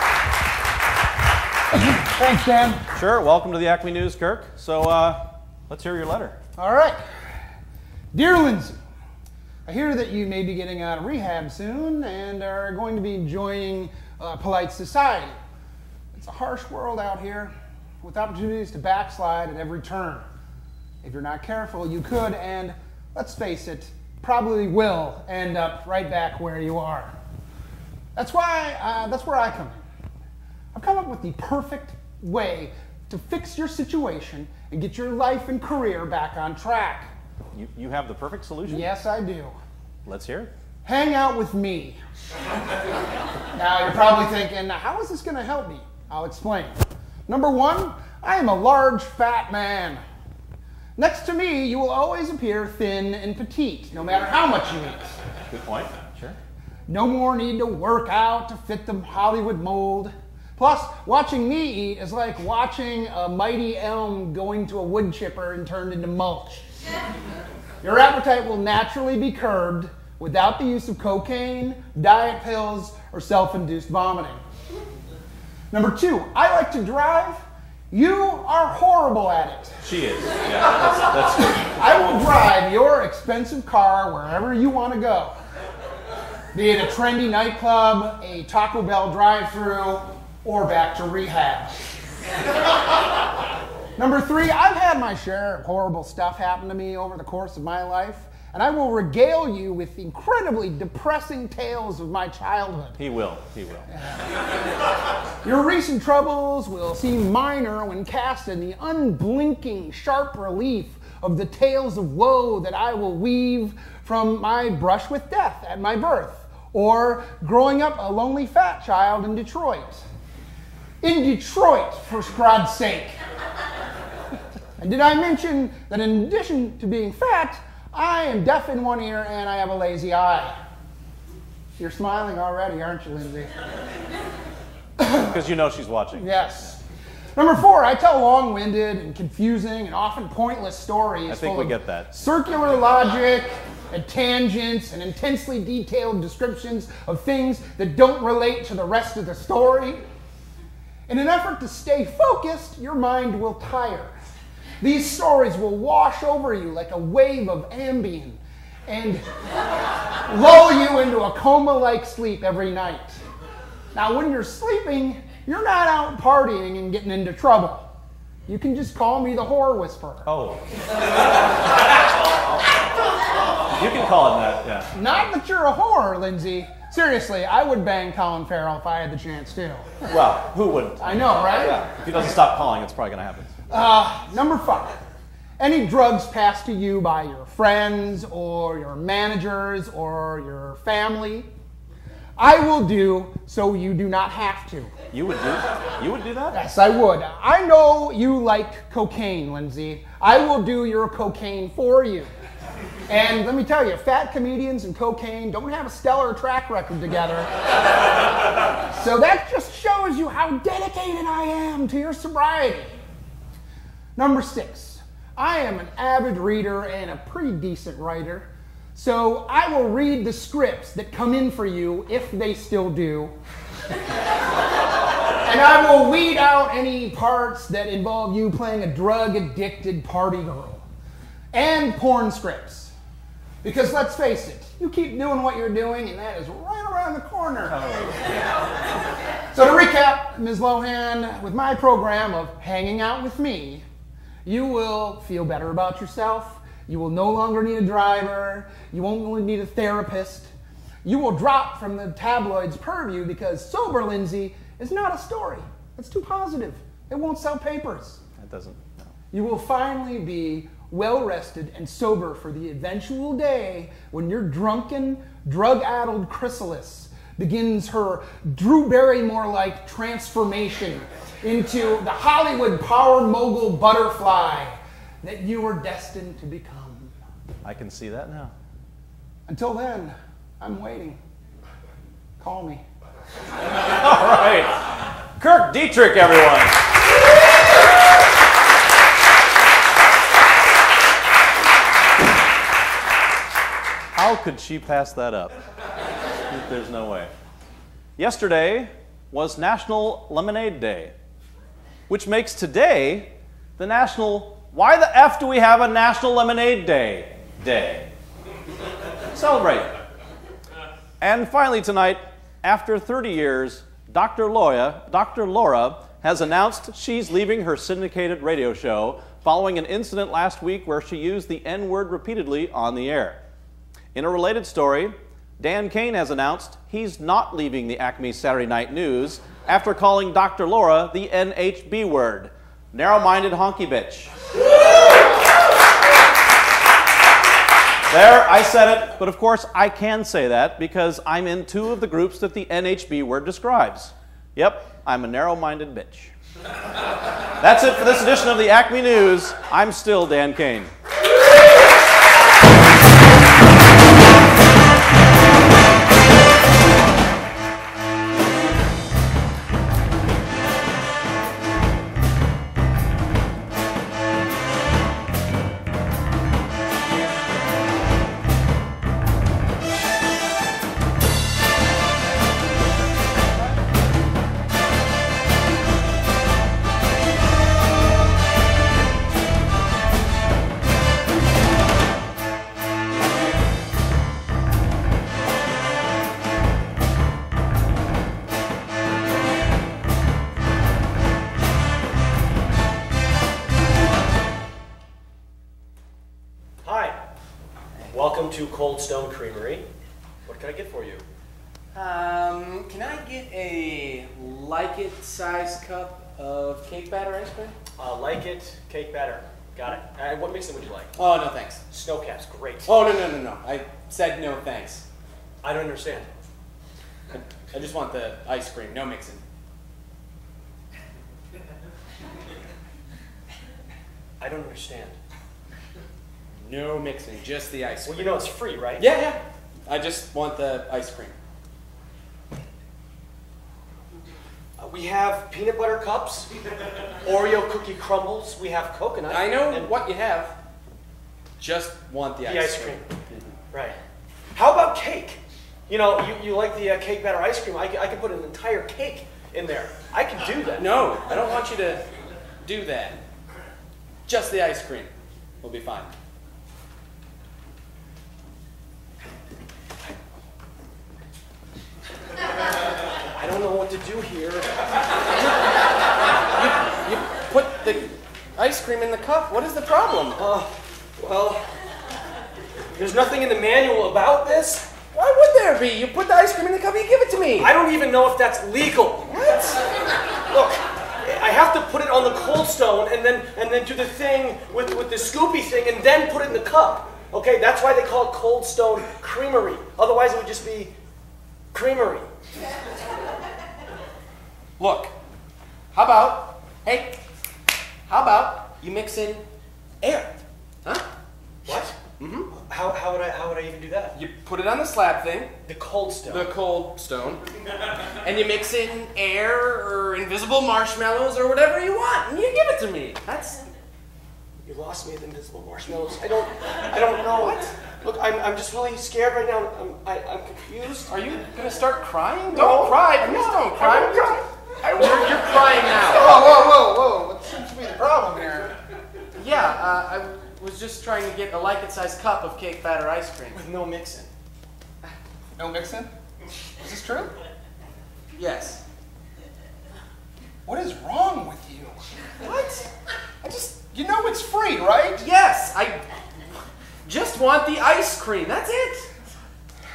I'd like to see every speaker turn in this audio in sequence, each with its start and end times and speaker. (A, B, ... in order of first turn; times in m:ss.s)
0:01.7-0:02.8 A
0:03.0-0:06.4 B
0:06.6-0:07.0 A
0:08.1-0:08.8 A
0:09.7-0:15.4 A
0:16.1-0:20.2 A
0:21.0-0:27.1 A
0:28.2-0:29.8 A
0:30.7-0:37.1 A
0:37.5-0:38.9 B
0:38.7-0:39.6 A
0:40.1-0:40.5 B
0:40.8-0:42.0 A
0:43.6-0:50.0 A
0:51.0-0:55.1 A
0:55.5-0:56.4 B
0:56.9-1:06.6 A
1:07.8-1:14.4 A
1:15.7-1:19.8 A
1:19.8-1:22.3 B
1:21.7-1:25.4 A
1:26.5-1:31.7 A
1:34.0-1:43.0 A
1:43.0-1:43.9 B
1:45.4-2:00.0 A
2:01.0-2:03.2 A
2:04.8-2:10.5 A
2:11.8-2:13.5 A
2:15.0-2:15.3 A
2:15.2-2:16.6 B
2:16.2-2:16.8 A
2:17.4-2:30.0 A
2:21.3-2:22.1 B
2:31.1-2:34.1 A
2:34.8-2:39.2 A
2:40.3-2:43.2 A
2:43.9-2:47.9 A
2:48.5-2:50.3 A
2:50.3-2:50.6 B
2:53.8-2:54.9 B
2:54.9-3:00.0 A
3:00.1-3:03.6 B
3:01.0-3:01.8 A
3:03.7-3:05.0 A
3:05.6-3:11.5 A
3:12.4-3:14.9 A
3:15.1-3:16.6 B
3:16.5-3:22.3 A
3:23.1-3:27.5 A
3:28.9-3:32.9 A
3:34.2-3:43.3 A
3:45.4-3:50.8 A
3:51.5-3:52.9 A
3:53.6-3:57.8 A
3:57.6-3:58.5 B
3:59.5-4:03.8 A
4:04.4-4:10.5 A
4:11.0-4:18.2 A
4:18.4-4:19.1 B
4:19.3-4:37.1 A
4:37.6-4:38.5 B
4:39.5-4:41.2 A
4:42.4-4:42.8 A
4:44.0-4:44.8 B
4:45.4-4:46.8 B
4:54.1-4:55.6 B
4:56.5-4:57.3 B
4:58.2-5:01.1 B
5:02.1-5:08.1 B
5:09.3-5:09.9 B
5:11.2-5:23.4 B
5:24.1-5:34.3 B
5:38.1-5:46.3 B
5:47.6-5:50.9 B
6:36.8-6:37.2 C
6:38.1-6:39.9 C
6:40.4-6:41.3 C
6:41.9-6:47.8 D
6:48.0-6:51.2 C
6:51.2-6:51.9 D
6:51.9-6:53.0 C
6:52.9-6:55.0 D
6:55.6-6:56.3 C
6:57.3-6:59.4 D
7:04.4-7:05.2 C
7:06.6-7:11.4 D
7:08.0-7:09.2 C
7:14.8-7:16.5 C
7:17.2-7:19.9 C
7:19.3-7:20.5 D
7:21.6-7:23.0 D
7:22.4-7:23.1 C
7:23.7-7:24.0 C
7:24.5-7:31.2 C
7:30.8-7:32.0 D
7:32.6-7:33.2 D
7:34.3-7:36.1 D
7:43.4-7:44.7 C
7:46.5-7:50.4 D
7:50.4-7:51.6 C
7:53.0-7:54.9 C
7:55.1-7:57.7 D
7:57.6-7:59.8 C
7:59.3-7:59.8 D
8:00.5-8:10.9 C
8:11.7-8:12.3 C
8:14.8-8:15.1 D
8:15.9-8:17.2 D
8:18.1-8:19.4 D
8:20.0-8:21.0 D
8:21.7-8:22.5 D
8:21.7-8:24.2 C
8:24.2-8:25.6 D
8:25.7-8:26.5 C
8:26.3-8:27.4 D
8:28.2-8:33.6 D
8:34.6-8:41.1 C
8:37.2-8:37.7 D
8:41.0-8:44.4 D
8:42.5-8:44.4 C
8:44.9-8:46.5 D
8:45.0-8:45.4 C
8:46.1-8:48.8 A
8:49.4-8:53.7 D
8:53.5-8:54.3 C
8:55.6-8:56.1 A
8:56.8-8:57.3 A
8:58.4-8:58.8 D
9:00.7-9:02.0 A
9:02.4-9:02.9 D
9:03.4-9:05.2 A
9:05.2-9:06.0 D
9:07.0-9:09.1 D